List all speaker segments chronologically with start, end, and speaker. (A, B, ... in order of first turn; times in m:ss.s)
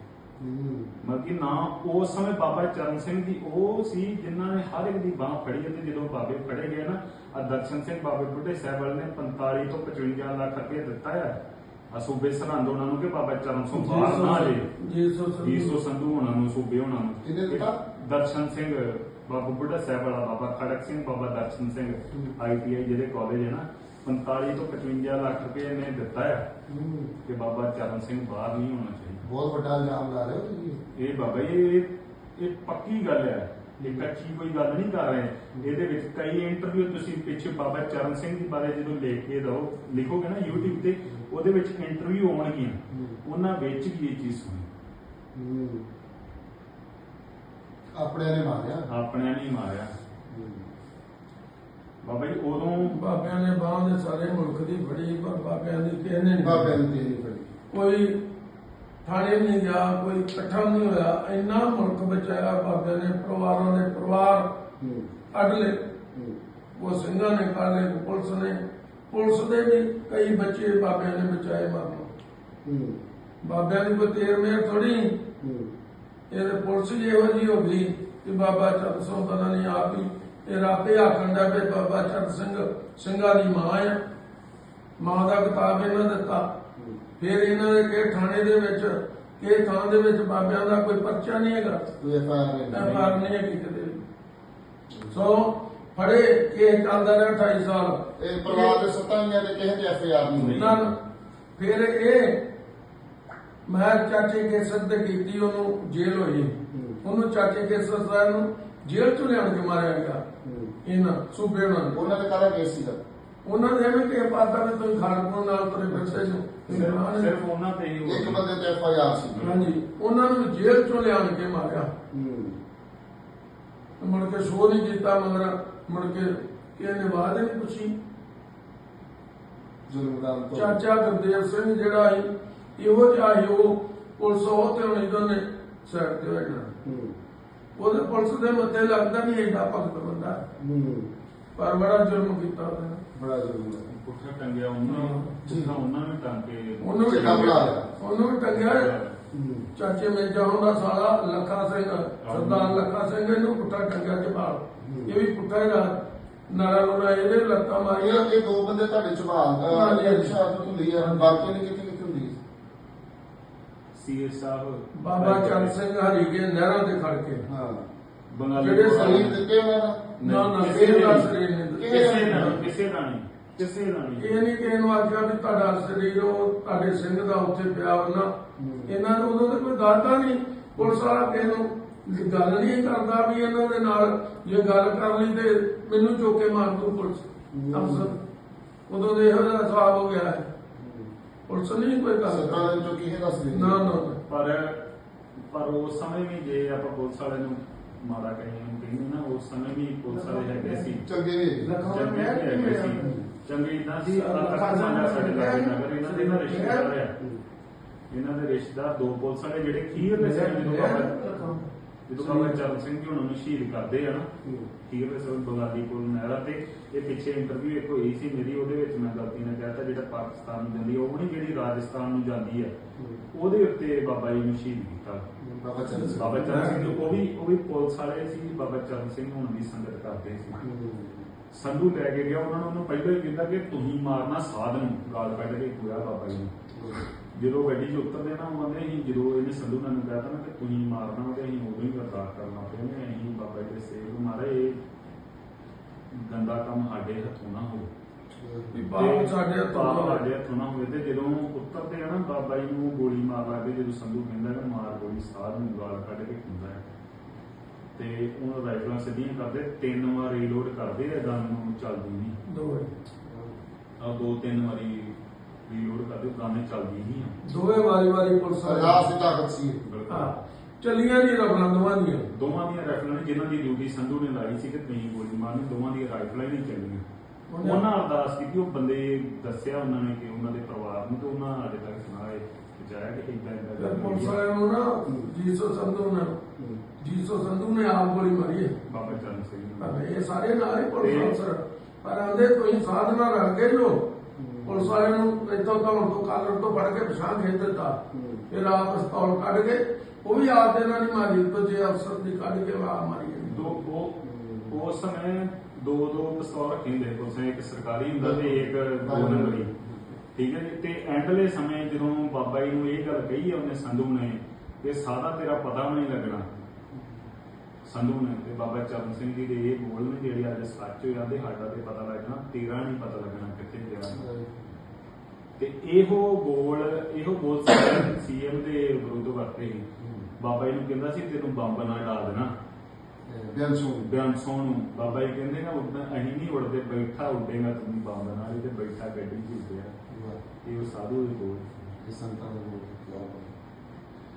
0:00.4-0:01.0 A
0:01.0-0:11.4 B
0:11.9-0:14.7 B
0:13.7-0:15.8 C
0:15.4-0:26.4 B
0:17.2-0:17.8 A
0:26.7-0:27.1 A
0:27.2-0:29.2 B
0:29.2-0:30.8 A
0:30.9-0:44.7 B
0:42.9-0:43.2 A
0:45.3-0:45.9 A
0:47.9-0:48.9 A
0:48.9-0:49.9 B
0:50.3-0:50.7 A
0:52.0-0:53.0 B
0:52.8-0:56.8 C
0:56.4-0:57.5 A
0:57.7-0:58.2 C
0:59.0-1:04.5 C
1:04.8-1:05.1 A
1:05.3-1:05.8 C
1:06.1-1:06.4 A
1:06.8-1:08.6 C
1:09.1-1:12.1 C
1:12.6-1:13.0 A
1:13.4-1:15.2 C
1:15.4-1:15.7 A
1:16.3-1:24.0 C
1:25.0-1:26.5 C
1:27.2-1:31.8 C
1:31.9-1:33.0 A
1:32.7-1:34.0 C
1:35.1-1:38.8 C
1:38.2-1:40.9 A
1:40.4-1:40.8 B
1:40.5-1:40.9 C
1:41.6-1:42.4 C
1:43.7-1:50.2 C
1:46.7-1:47.0 A
1:50.4-1:50.7 A
1:50.8-1:52.0 C
1:51.9-1:53.0 A
1:53.4-1:57.3 C
1:55.9-1:56.9 A
1:56.7-1:58.4 B
1:58.0-1:59.5 A
1:59.4-1:59.7 B
1:59.4-2:01.9 C
2:02.1-2:02.6 A
2:04.0-2:07.9 C
2:09.9-2:10.8 A
2:10.5-2:16.7 C
2:16.7-2:17.2 A
2:17.8-2:20.4 C
2:20.6-2:21.1 A
2:21.6-2:23.0 C
2:23.1-2:23.8 A
2:23.9-2:27.8 B
2:24.8-2:25.3 C
2:25.5-2:25.8 A
2:26.8-2:28.9 C
2:27.0-2:27.9 A
2:28.5-2:29.2 B
2:29.3-2:29.7 A
2:29.8-2:38.3 C
2:32.2-2:32.8 B
2:34.8-2:35.2 A
2:38.0-2:42.4 A
2:39.7-2:40.4 C
2:41.0-2:41.4 C
2:43.9-2:45.7 B
2:45.0-2:47.4 C
2:47.5-2:47.8 A
2:48.3-2:49.4 B
2:48.6-2:49.3 C
2:48.9-2:50.1 A
2:50.2-2:51.3 B
2:50.2-2:52.6 C
2:51.7-2:52.6 A
2:51.8-2:54.4 B
2:54.2-2:58.3 C
2:58.6-2:58.9 A
2:58.8-3:08.2 C
3:07.5-3:08.2 A
3:08.9-3:10.5 C
3:10.8-3:11.1 A
3:11.5-3:12.7 C
3:12.2-3:14.0 A
3:13.5-3:14.2 C
3:14.3-3:14.8 B
3:15.4-3:21.0 B
3:20.2-3:20.8 C
3:21.0-3:21.8 A
3:21.6-3:23.2 C
3:21.8-3:27.2 B
3:24.0-3:26.9 C
3:28.1-3:31.5 B
3:30.0-3:32.6 C
3:32.1-3:34.3 B
3:34.4-3:34.7 A
3:34.8-3:42.7 B
3:43.0-3:43.3 A
3:43.3-3:45.2 B
3:45.4-3:46.6 A
3:45.9-3:47.0 C
3:46.1-3:50.6 B
3:50.6-3:51.3 A
3:51.5-3:56.5 B
3:56.7-3:57.0 A
3:57.3-4:04.8 B
4:06.1-4:07.9 B
4:08.4-4:08.8 A
4:08.7-4:10.2 C
4:09.0-4:16.8 B
4:18.0-4:22.4 B
4:22.5-4:22.9 C
4:23.2-4:23.5 A
4:24.0-4:25.1 B
4:25.6-4:27.4 B
4:27.4-4:29.1 C
4:28.6-4:29.8 A
4:29.8-4:30.4 B
4:30.1-4:32.3 C
4:32.3-4:37.0 B
4:37.5-4:37.8 C
4:37.6-4:44.4 B
4:43.8-4:46.4 C
4:46.6-4:46.9 A
4:47.0-4:48.8 C
4:48.9-4:50.0 B
4:49.8-4:54.0 C
4:51.0-4:51.4 B
4:54.4-4:55.0 A
4:54.6-5:03.6 C
4:58.1-4:58.5 A
5:03.5-5:04.2 B
5:04.2-5:04.8 A
5:04.7-5:09.7 B
5:08.2-5:10.2 A
5:10.3-5:16.5 B
5:16.9-5:17.2 A
5:17.9-5:24.2 B
5:24.1-5:24.7 A
5:25.6-5:29.8 B
5:30.0-5:30.3 A
5:30.4-5:32.5 B
5:33.3-5:34.1 A
5:34.0-5:39.9 B
5:40.1-5:40.4 A
5:40.6-5:41.9 B
5:42.0-5:43.6 A